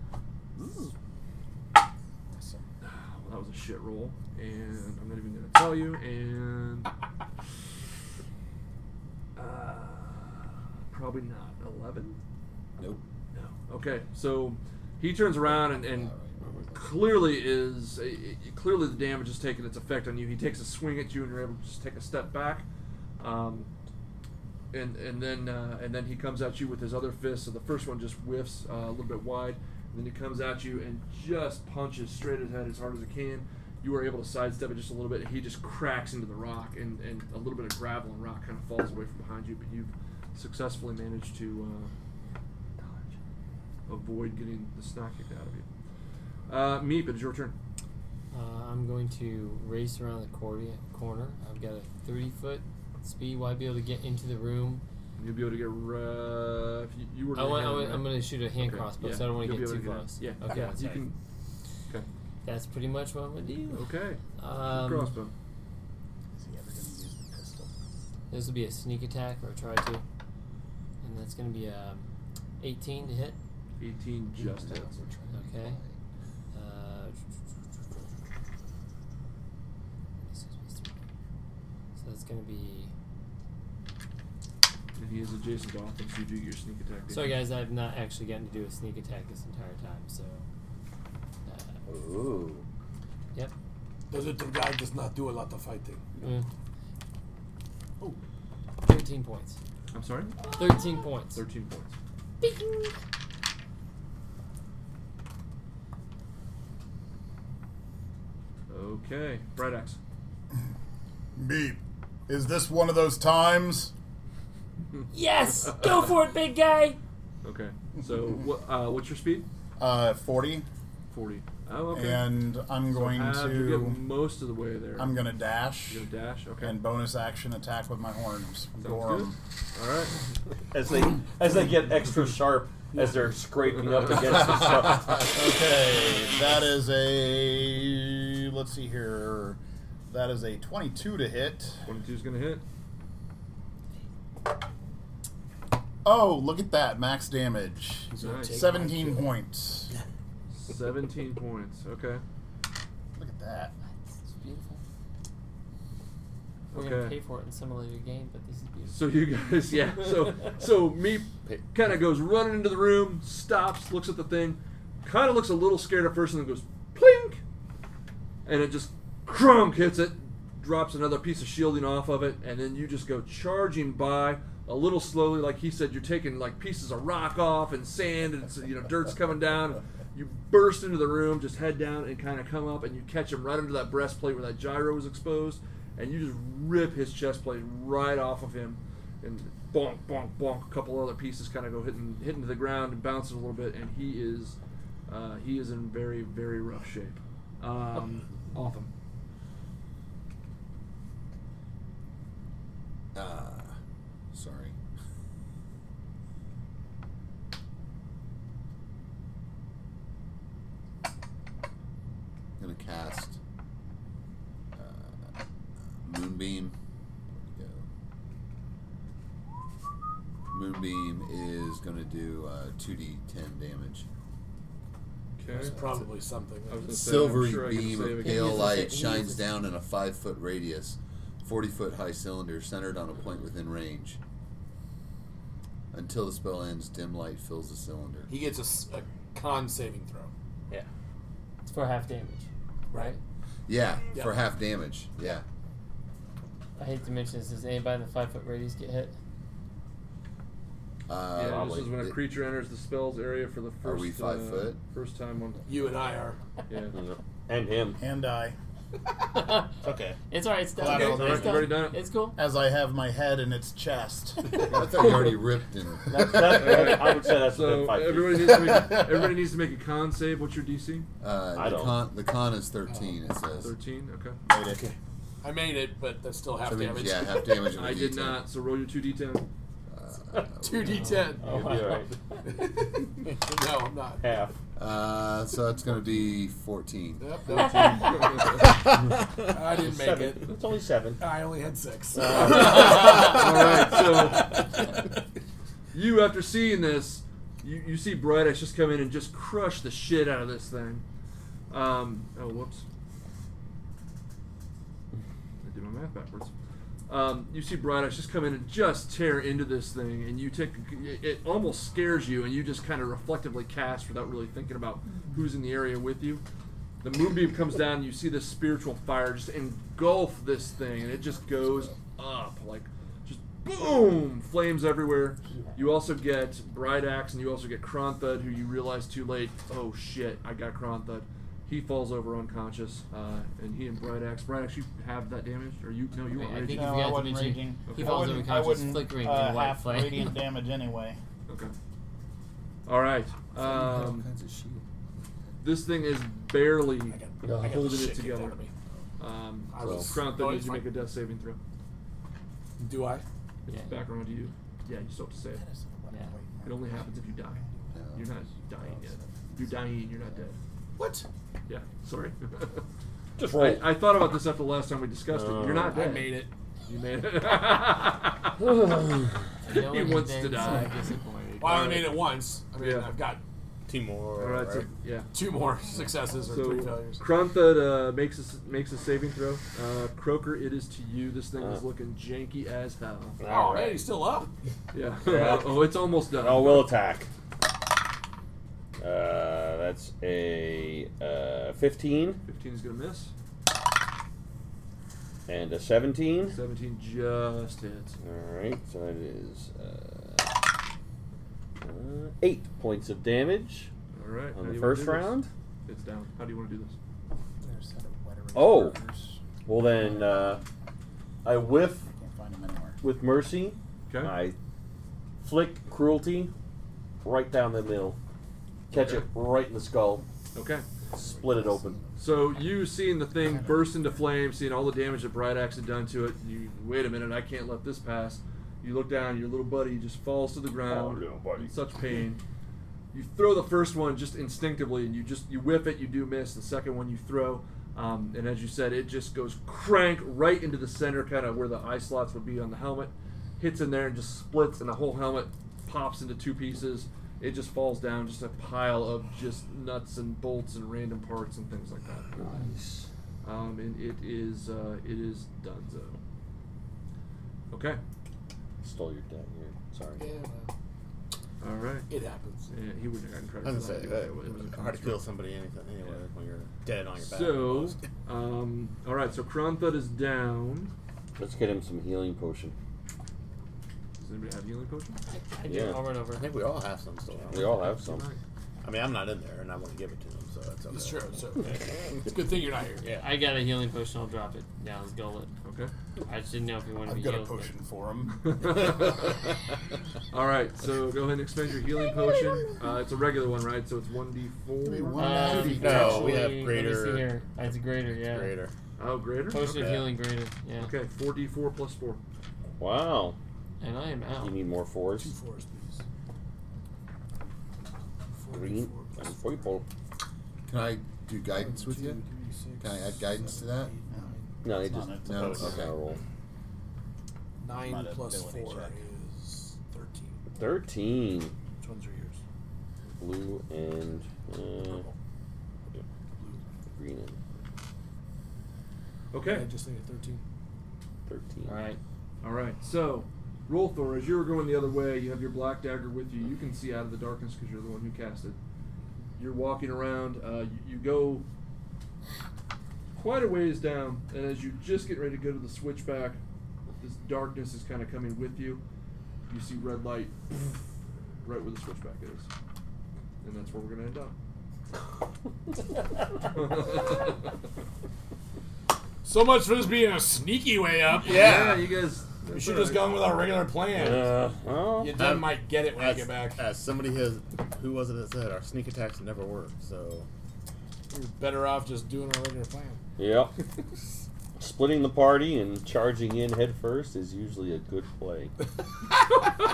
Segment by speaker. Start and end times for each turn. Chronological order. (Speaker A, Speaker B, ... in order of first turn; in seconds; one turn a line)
Speaker A: 2.3-2.6
Speaker B: 2.8-6.9
Speaker B: 9.3-12.2
Speaker C: 12.8-13.0
Speaker B: 13.3-16.1
Speaker C: 15.4-16.9
Speaker B: 16.6-22.6
Speaker B: 23.2-23.7
Speaker B: 24.7-41.9
Speaker B: 43.9-45.7
Speaker B: 46.5-47.5
Speaker D: 48.3-54.8
Speaker B: 55.2-61.1
Speaker D: 57.3-61.1
Speaker D: 62.4-65.1
Speaker B: 63.7-65.3
Speaker A: 66.3-67.7
Speaker D: 68.3-70.0
Speaker D: 71.0-72.1
Speaker D: 72.6-73.4
Speaker B: 73.8-74.9
Speaker C: 74.4-76.0
Speaker D: 75.3-75.8
Speaker D: 76.5-77.2
Speaker D: 80.3-80.9
Speaker D: 82.0-82.9
Speaker B: 85.0-87.5
Speaker D: 87.1-90.5
Speaker D: 91.5-91.8
Speaker E: 91.9-92.7
Speaker F: 94.1-96.1
Speaker D: 96.2-96.5
Speaker D: 98.8-99.6
Speaker B: 99.9-100.4
Speaker D: 100.5-101.4
Speaker B: 101.3-102.0
Speaker D: 102.4-102.9
Speaker B: 108.7-110.0
Speaker A: 111.3-113.9
Speaker D: 115.1-117.0
Speaker B: 117.4-119.5
Speaker A: 118.1-118.4
Speaker A: 119.8-120.7
Speaker B: 121.1-125.2
Speaker A: 121.9-124.0
Speaker A: 124.9-126.0
Speaker B: 125.9-126.8
Speaker A: 126.6-129.4
Speaker B: 128.8-130.2
Speaker E: 130.7-135.1
Speaker A: 135.2-141.8
Speaker B: 141.8-142.6
Speaker A: 146.0-149.9
Speaker F: 148.1-149.3
Speaker B: 148.1-148.7
Speaker B: 150.5-152.2
Speaker A: 153.2-153.7
Speaker D: 154.2-154.8
Speaker B: 156.7-157.2
Speaker D: 156.7-159.0
Speaker B: 158.9-167.4
Speaker B: 168.4-198.9
Speaker C: 203.1-203.8
Speaker C: 204.3-204.8
Speaker C: 212.6-213.4
Speaker C: 214.7-215.3
Speaker C: 216.0-216.8
Speaker C: 217.4-217.8
Speaker C: 220.5-224.1
Speaker B: 225.4-225.9
Speaker F: 225.6-226.9
Speaker B: 226.7-229.0
Speaker C: 226.9-234.2
Speaker D: 228.2-229.5
Speaker C: 235.9-238.3
Speaker F: 238.3-240.3
Speaker D: 241.6-243.2
Speaker F: 242.9-243.2
Speaker C: 243.7-245.4
Speaker D: 246.8-249.2
Speaker C: 251.1-252.2
Speaker B: 251.3-255.7
Speaker C: 253.8-254.8
Speaker F: 255.7-256.4
Speaker B: 256.7-256.9
Speaker E: 256.9-258.0
Speaker A: 258.0-258.6
Speaker D: 259.3-259.8
Speaker G: 259.8-260.2
Speaker D: 260.3-262.4
Speaker G: 260.7-261.7
Speaker B: 260.8-262.0
Speaker A: 262.3-265.0
Speaker C: 264.6-266.7
Speaker E: 266.1-269.0
Speaker B: 266.4-271.1
Speaker C: 271.2-273.8
Speaker E: 271.5-272.0
Speaker F: 272.9-273.2
Speaker B: 273.6-274.4
Speaker A: 274.5-274.9
Speaker F: 274.7-277.5
Speaker C: 276.6-278.4
Speaker B: 277.7-279.5
Speaker C: 279.9-281.2
Speaker F: 280.4-281.7
Speaker D: 281.0-282.1
Speaker E: 281.5-282.1
Speaker F: 282.4-284.3
Speaker E: 284.2-284.6
Speaker C: 284.8-287.3
Speaker F: 287.2-288.3
Speaker D: 287.5-288.4
Speaker B: 288.0-288.6
Speaker E: 288.9-291.3
Speaker F: 289.5-290.6
Speaker F: 291.2-295.0
Speaker E: 292.1-293.4
Speaker B: 292.4-294.9
Speaker B: 295.9-301.0
Speaker B: 301.7-302.8
Speaker B: 305.6-306.5
Speaker B: 307.1-316.4
Speaker B: 317.0-337.1
Speaker D: 336.3-340.4
Speaker A: 336.6-341.2
Speaker B: 337.9-338.5
Speaker B: 341.5-341.7
Speaker B: 342.9-344.3
Speaker C: 343.5-344.8
Speaker B: 345.6-348.6
Speaker F: 347.1-348.7
Speaker E: 347.4-347.8
Speaker B: 349.2-351.6
Speaker F: 349.7-350.8
Speaker E: 349.8-350.1
Speaker F: 352.8-353.2
Speaker B: 353.6-355.6
Speaker D: 353.7-354.0
Speaker A: 355.5-358.1
Speaker D: 356.1-356.4
Speaker B: 356.6-360.6
Speaker C: 357.9-358.2
Speaker A: 358.8-359.2
Speaker F: 361.0-361.3
Speaker B: 361.7-362.8
Speaker E: 363.4-363.9
Speaker B: 363.4-368.6
Speaker E: 365.3-366.0
Speaker F: 365.9-366.5
Speaker E: 368.6-369.5
Speaker D: 369.6-371.7
Speaker B: 369.7-372.2
Speaker F: 371.6-373.4
Speaker B: 372.8-373.1
Speaker G: 373.9-374.9
Speaker B: 374.4-375.3
Speaker F: 375.3-377.2
Speaker B: 376.5-383.4
Speaker E: 383.4-384.1
Speaker F: 383.4-384.5
Speaker B: 384.9-386.9
Speaker E: 385.2-387.3
Speaker E: 389.0-392.4
Speaker B: 392.4-393.3
Speaker E: 395.5-396.6
Speaker B: 396.5-398.2
Speaker E: 398.2-400.6
Speaker E: 401.8-403.9
Speaker B: 404.1-407.0
Speaker E: 404.5-405.5
Speaker A: 407.6-410.6
Speaker E: 408.5-409.0
Speaker E: 409.6-410.6
Speaker E: 411.4-412.1
Speaker A: 412.1-413.0
Speaker E: 413.0-414.6
Speaker E: 415.4-416.5
Speaker E: 417.2-418.2
Speaker E: 418.9-420.2
Speaker B: 418.9-419.3
Speaker B: 420.5-420.9
Speaker E: 421.2-422.0
Speaker B: 422.2-432.4
Speaker A: 423.4-423.9
Speaker E: 430.9-431.7
Speaker B: 433.1-452.6
Speaker E: 452.3-453.1
Speaker B: 453.4-456.2
Speaker B: 457.7-458.0
Speaker E: 458.8-460.3
Speaker F: 460.2-460.7
Speaker B: 461.6-462.1
Speaker F: 462.1-462.7
Speaker B: 462.7-465.2
Speaker G: 463.6-468.0
Speaker B: 467.2-470.9
Speaker E: 471.4-472.7
Speaker B: 474.2-475.2
Speaker D: 475.3-476.5
Speaker E: 475.7-476.0
Speaker G: 476.3-477.8
Speaker E: 477.5-478.2
Speaker B: 477.6-478.4
Speaker G: 478.8-482.3
Speaker F: 480.9-483.0
Speaker G: 483.0-483.3
Speaker D: 483.2-485.5
Speaker B: 485.6-485.9
Speaker D: 486.2-487.7
Speaker A: 487.0-488.9
Speaker B: 488.4-489.5
Speaker B: 490.3-496.3
Speaker A: 494.8-496.4
Speaker D: 495.1-498.5
Speaker G: 495.6-497.3
Speaker G: 498.2-498.7
Speaker B: 499.0-500.1
Speaker D: 499.5-500.9
Speaker G: 499.6-500.1
Speaker B: 500.8-502.2
Speaker E: 502.8-503.4
Speaker D: 503.8-504.5
Speaker E: 504.4-505.3
Speaker F: 505.1-506.0
Speaker F: 508.3-509.3
Speaker E: 508.5-509.9
Speaker C: 510.7-512.2
Speaker F: 511.5-514.6
Speaker C: 512.8-513.9
Speaker A: 514.1-515.7
Speaker E: 514.6-516.2
Speaker C: 515.2-515.9
Speaker G: 515.4-515.8
Speaker F: 517.6-520.5
Speaker A: 517.6-519.0
Speaker E: 520.5-521.5
Speaker F: 521.8-522.4
Speaker E: 523.2-525.1
Speaker F: 524.9-525.1
Speaker F: 526.4-526.6
Speaker E: 526.9-527.4
Speaker B: 529.3-529.7
Speaker F: 529.4-530.4
Speaker E: 531.3-531.8
Speaker D: 531.6-532.0
Speaker B: 532.4-538.6
Speaker B: 539.4-541.5
Speaker B: 543.1-546.4
Speaker B: 547.0-548.8
Speaker B: 549.5-550.5
Speaker B: 551.4-552.5
Speaker B: 553.4-554.4
Speaker B: 556.5-557.5
Speaker F: 559.2-564.4
Speaker B: 561.1-563.2
Speaker E: 563.9-565.2
Speaker F: 565.0-566.6
Speaker G: 565.1-570.3
Speaker F: 571.1-573.0
Speaker E: 573.2-573.5
Speaker E: 574.6-578.5